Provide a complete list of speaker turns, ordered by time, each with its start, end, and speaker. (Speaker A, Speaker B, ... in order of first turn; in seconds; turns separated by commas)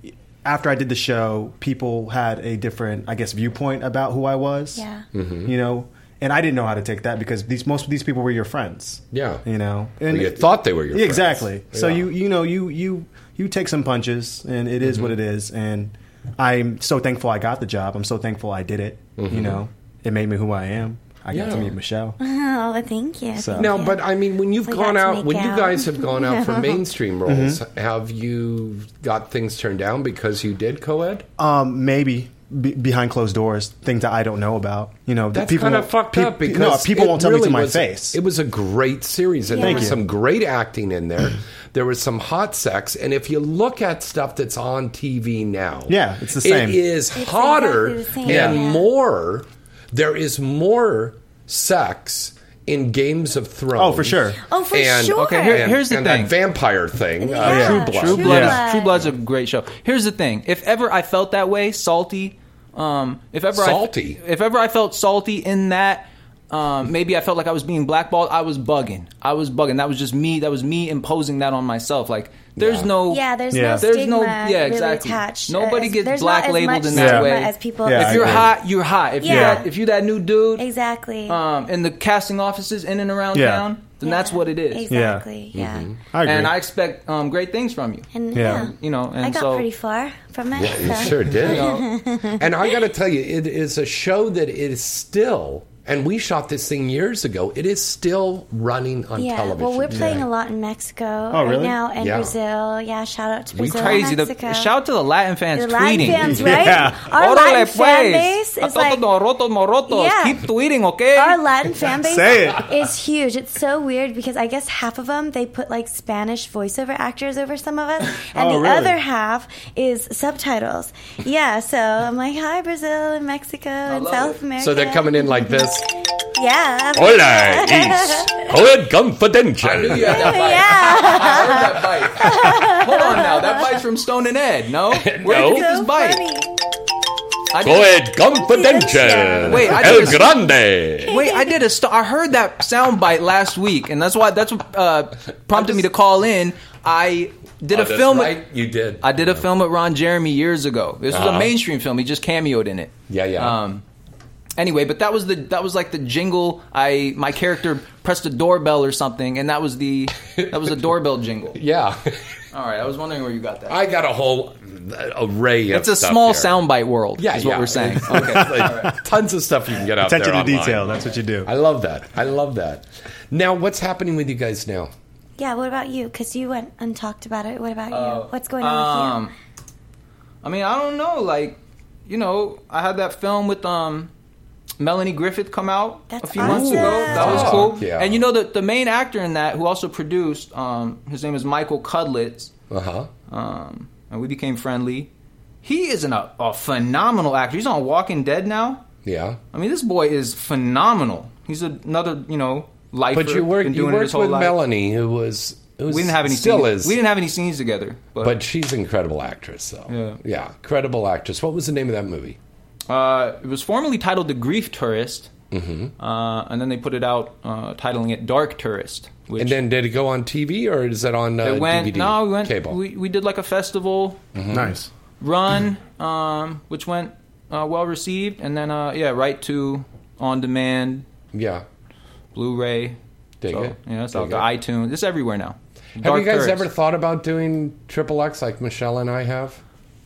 Speaker A: 0.4-4.8, Speaker B: 4.8-5.0, Speaker C: 5.1-5.5, Speaker A: 5.5-22.2, Speaker C: 9.1-9.4, Speaker C: 10.1-12.1, Speaker C: 14.8-15.1, Speaker C: 19.2-19.6, Speaker C: 21.3-21.8, Speaker B: 22.2-24.0, Speaker A: 23.4-23.8, Speaker C: 23.6-31.3, Speaker B: 24.7-26.8, Speaker A: 27.3-27.6, Speaker A: 31.4-38.2, Speaker C: 35.3-59.1, Speaker B: 39.5-40.0, Speaker A: 39.6-40.0, Speaker A: 45.9-46.8, Speaker B: 47.1-48.9, Speaker A: 48.3-48.6, Speaker A: 53.8-54.4, Speaker B: 54.4-55.7, Speaker D: 55.1-56.3, Speaker B: 57.2-59.1, Speaker A: 57.4-58.6, Speaker D: 57.5-73.2, Speaker C: 63.5-64.2, Speaker C: 72.6-72.9, Speaker B: 73.1-78.5, Speaker A: 73.5-73.9, Speaker D: 73.8-80.7, Speaker A: 76.9-77.3, Speaker A: 77.8-78.5, Speaker B: 79.2-79.7, Speaker A: 79.2-79.6, Speaker B: 80.6-81.4, Speaker D: 81.3-84.9, Speaker A: 83.3-83.7, Speaker B: 84.0-85.9, Speaker A: 84.9-85.3, Speaker C: 85.5-86.0, Speaker A: 86.1-86.6, Speaker D: 86.2-89.7, Speaker B: 88.1-92.5, Speaker A: 88.3-88.7, Speaker C: 90.6-91.7, Speaker D: 91.4-91.9, Speaker C: 92.4-100.3, Speaker B: 99.2-104.7, Speaker A: 99.9-100.2, Speaker A: 101.3-101.8, Speaker C: 102.0-102.3, Speaker C: 103.6-104.1, Speaker D: 103.6-111.4, Speaker B: 105.5-109.0, Speaker A: 106.0-107.0, Speaker B: 109.9-110.4, Speaker B: 111.2-125.7, Speaker A: 112.0-112.7, Speaker A: 118.3-119.0, Speaker D: 123.9-124.4, Speaker C: 124.6-125.9, Speaker B: 126.3-128.4, Speaker C: 127.0-130.7, Speaker D: 129.6-136.2, Speaker B: 130.1-133.8, Speaker C: 134.9-135.7, Speaker B: 135.2-136.5, Speaker D: 137.5-138.1, Speaker C: 137.6-141.2, Speaker B: 138.2-141.5, Speaker D: 139.4-140.3, Speaker D: 141.1-148.4, Speaker C: 145.5-145.9, Speaker C: 147.7-149.4, Speaker D: 149.0-153.8, Speaker C: 151.1-151.5, Speaker C: 153.1-153.6, Speaker D: 154.6-161.6, Speaker C: 161.6-162.2, Speaker D: 162.5-163.8, Speaker C: 163.7-166.6, Speaker D: 165.7-169.0, Speaker C: 167.2-174.9, Speaker A: 168.1-168.9, Speaker A: 170.0-171.5, Speaker B: 175.4-179.2, Speaker D: 177.9-179.3, Speaker D: 180.4-184.1, Speaker D: 184.8-192.5, Speaker B: 186.1-187.7, Speaker C: 186.4-188.2, Speaker C: 192.7-193.1, Speaker D: 193.3-195.1, Speaker D: 195.6-198.8, Speaker C: 199.1-199.4, Speaker D: 199.5-204.6, Speaker C: 203.1-207.0, Speaker D: 205.9-208.4, Speaker C: 208.2-212.4, Speaker D: 209.9-210.2, Speaker D: 212.9-215.3, Speaker C: 215.5-215.9, Speaker D: 216.0-219.6, Speaker C: 219.4-222.8, Speaker D: 221.4-224.2, Speaker C: 224.3-224.8, Speaker A: 224.5-224.9, Speaker D: 225.2-231.1, Speaker C: 231.3-231.7, Speaker D: 232.3-236.7, Speaker C: 233.4-234.5, Speaker C: 236.0-239.6